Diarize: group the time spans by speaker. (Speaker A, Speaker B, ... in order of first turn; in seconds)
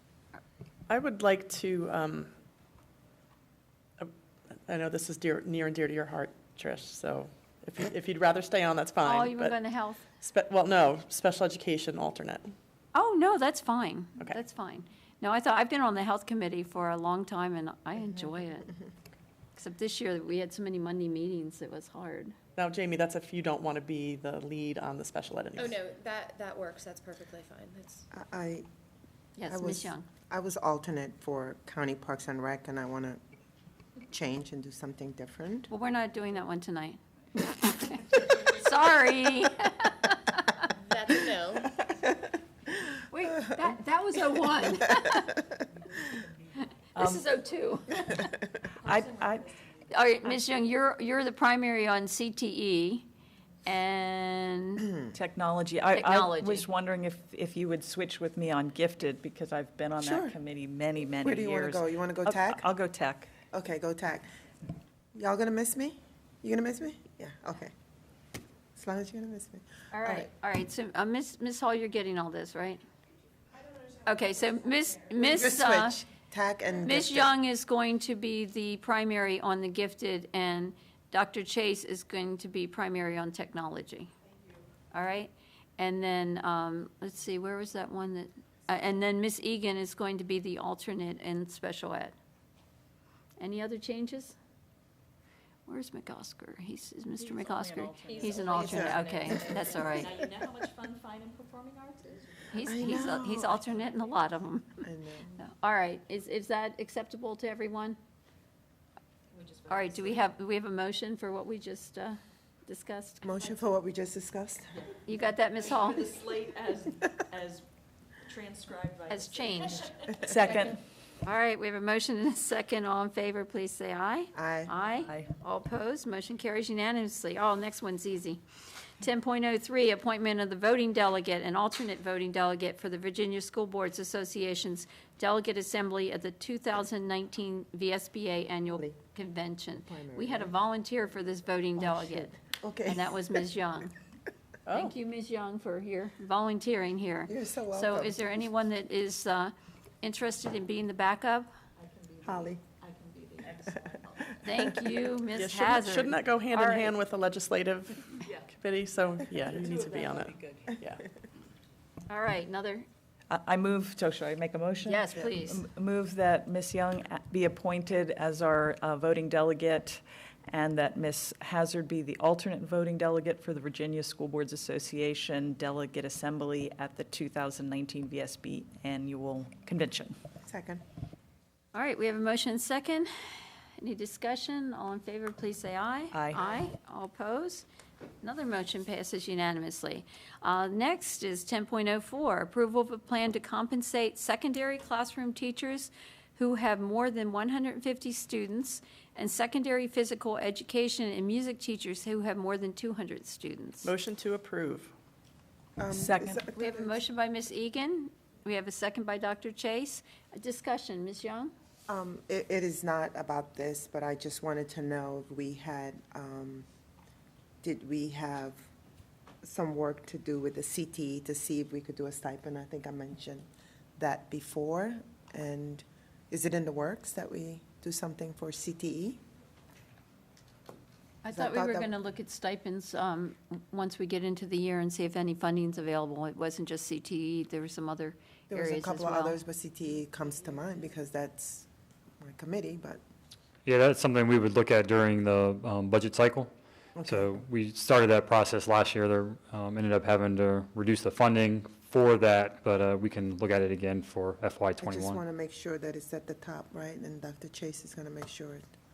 Speaker A: 0.9-2.3, 4.7-9.6, 10.2-12.5, 22.6-25.8, 144.7-144.9, 155.3-161.0, 203.8-204.9
Speaker B: 9.0-10.1, 12.9-18.7, 19.6-22.4, 29.4-30.1, 35.7-40.7, 43.1-45.4, 47.0-48.4, 49.9-53.1, 53.7-54.9, 55.9-56.7, 69.9-72.8, 74.0-76.0, 76.8-84.1, 84.9-92.2, 93.4-94.4, 95.7-100.2, 102.5-104.9, 105.4-108.0, 109.7-113.3, 115.1-116.2, 119.1-119.9, 121.2-128.4, 129.0-142.3, 142.9-143.9, 144.7-151.5, 154.4-156.9, 162.1-162.9, 164.8-165.6, 181.7-183.1, 183.8-187.7, 188.2-203.9, 206.6-211.5, 231.2-239.4
Speaker C: 25.6-28.1, 40.9-41.7
Speaker D: 28.1-28.6, 29.5-33.2, 34.1-35.7, 60.0-60.4, 61.2-62.7, 63.5-64.3, 65.2-67.7, 68.8-70.3, 75.1-77.3, 98.5-100.2, 102.6-103.6, 104.8-105.4, 113.2-114.7, 124.3-124.7, 139.9-140.5, 141.8-143.3, 147.3-148.2, 152.2-152.6, 180.4-180.8, 205.8-207.0, 211.9-216.7, 217.6-218.7, 219.4-229.2, 231.3-231.9, 238.5-241.7, 242.2-243.0, 247.0-247.3, 254.8-258.6
Speaker E: 47.0-47.2, 48.8-49.5, 55.1-63.3, 97.5-98.2, 120.2-120.8, 151.8-152.2, 152.8-153.8, 163.3-180.1, 186.1-186.4, 205.9-206.4
Speaker F: 97.7-102.7, 109.4-110.2, 115.8-117.6, 118.2-120.1, 152.8-153.8
Speaker G: 243.7-246.5, 247.1-255.2